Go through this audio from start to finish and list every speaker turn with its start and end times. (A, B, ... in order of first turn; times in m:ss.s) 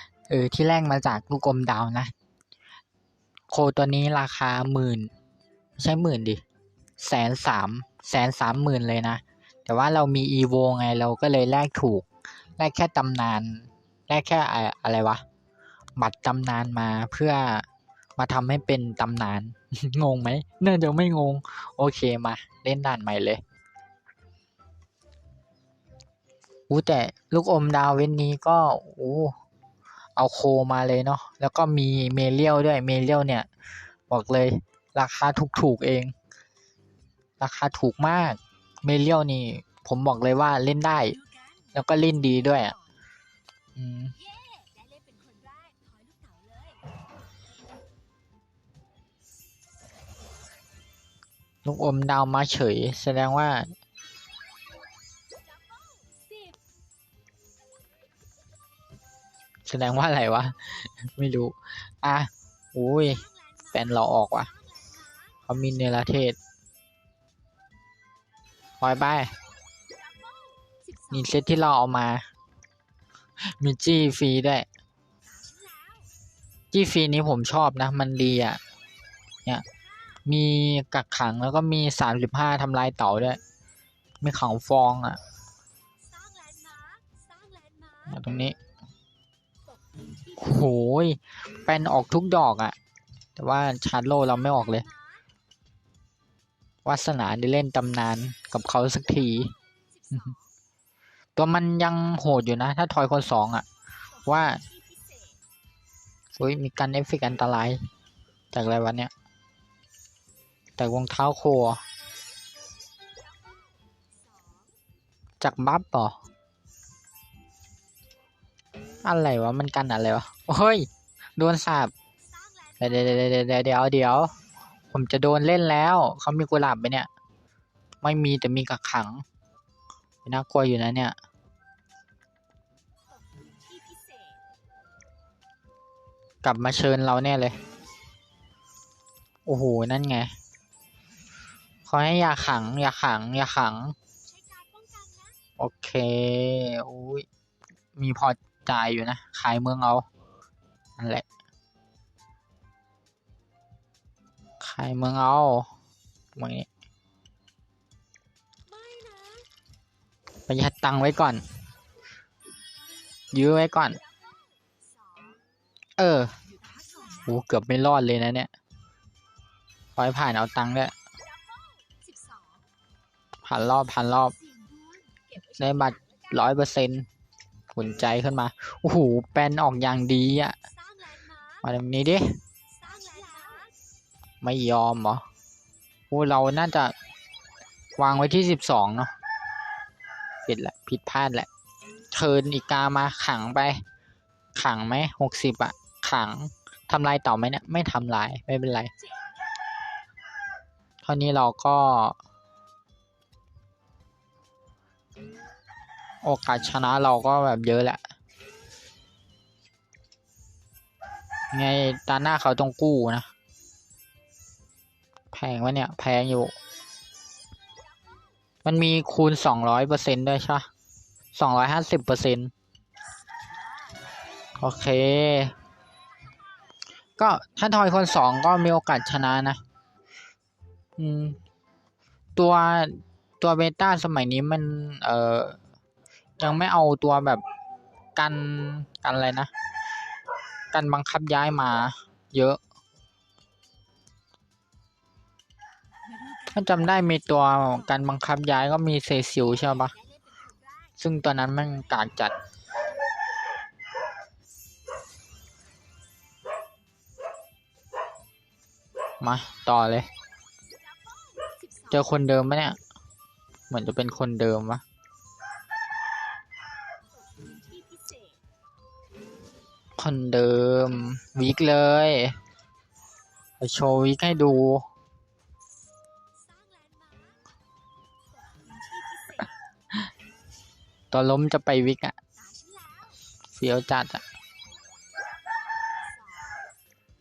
0:00.3-0:02.1 A
0:03.5-0:05.1 A
0:05.8-0:06.4 A
0:07.0-0:12.0 A
0:12.6-0:15.2 A
0:16.0-0:17.6 A
0:18.2-0:23.4 A
0:26.7-0:29.3 A
0:30.2-0:33.5 A
0:34.1-0:36.1 A
0:37.4-0:41.2 A
0:41.7-0:42.7 A
0:43.8-0:44.2 A
0:44.2-0:46.8 B
0:51.6-0:53.7 A
0:55.6-0:56.6 B
0:59.7-1:04.5 A
1:04.8-1:05.1 B
1:05.5-1:06.4 A
1:08.8-1:09.3 A
1:09.9-1:11.1 B
1:11.1-1:12.2 A
1:13.5-1:14.6 A
1:15.3-1:16.1 B
1:16.7-1:18.6 A
1:20.2-1:23.4 A
1:24.2-1:25.2 A
1:26.0-1:28.1 B
1:28.1-1:28.6 A
1:30.4-1:32.8 A
1:33.4-1:34.8 A
1:36.8-1:39.5 A
1:40.0-1:40.4 B
1:41.4-1:43.6 A
1:44.2-1:44.6 A
1:44.5-1:45.4 B
1:46.4-1:47.8 A
1:48.5-1:49.1 A
1:50.8-1:51.8 A
1:53.2-1:54.7 B
1:55.4-1:56.2 A
1:59.0-2:01.9 A
2:02.4-2:02.8 B
2:02.8-2:04.3 A
2:04.9-2:07.1 A
2:08.0-2:09.2 A
2:10.2-2:11.2 A
2:13.3-2:14.4 B
2:16.4-2:17.6 A
2:19.4-2:20.3 A
2:21.9-2:24.0 A
2:24.3-2:25.4 B
2:25.6-2:27.2 A
2:28.0-2:30.0 A
2:31.0-2:31.2 A
2:34.6-2:35.7 A
2:36.4-2:36.7 A
2:38.7-2:39.5 B
2:40.5-2:41.4 A
2:43.3-2:44.0 A
2:45.0-2:45.4 B
2:46.0-2:46.4 A
2:46.7-2:47.1 B
2:47.1-2:48.5 A
2:50.0-2:50.9 A
2:51.4-2:52.7 B
2:53.4-2:54.4 A
2:54.4-2:56.0 B
2:55.6-2:57.1 A
2:57.7-3:00.6 A
3:01.0-3:01.4 B
3:01.6-3:02.4 A
3:02.7-3:03.7 B
3:04.4-3:05.2 A
3:06.1-3:06.9 A
3:08.0-3:09.1 A
3:10.4-3:11.5 A
3:12.1-3:13.8 A
3:14.5-3:18.9 A
3:21.0-3:22.2 A
3:26.2-3:28.0 A
3:31.5-3:33.3 A
3:35.3-3:36.5 A
3:38.6-3:40.7 A
3:41.3-3:42.5 A
3:44.6-3:45.5 A
3:47.2-3:49.6 A
3:51.0-3:51.4 A
3:52.4-3:55.6 A
3:56.4-3:57.4 A
3:58.1-3:59.5 A
4:00.7-4:02.6 A
4:06.2-4:06.5 B
4:06.5-4:09.9 A
4:10.0-4:10.6 B
4:11.0-4:12.4 A
4:19.2-4:20.1 A
4:20.9-4:21.9 B
4:21.9-4:22.8 A
4:23.7-4:24.8 A
4:27.2-4:28.4 B
4:30.0-4:32.4 A
4:33.6-4:34.8 A
4:36.4-4:37.4 B
4:38.4-4:39.6 B
4:41.1-4:42.2 A
4:42.4-4:43.1 B
4:43.5-4:44.2 A
4:45.7-4:46.6 B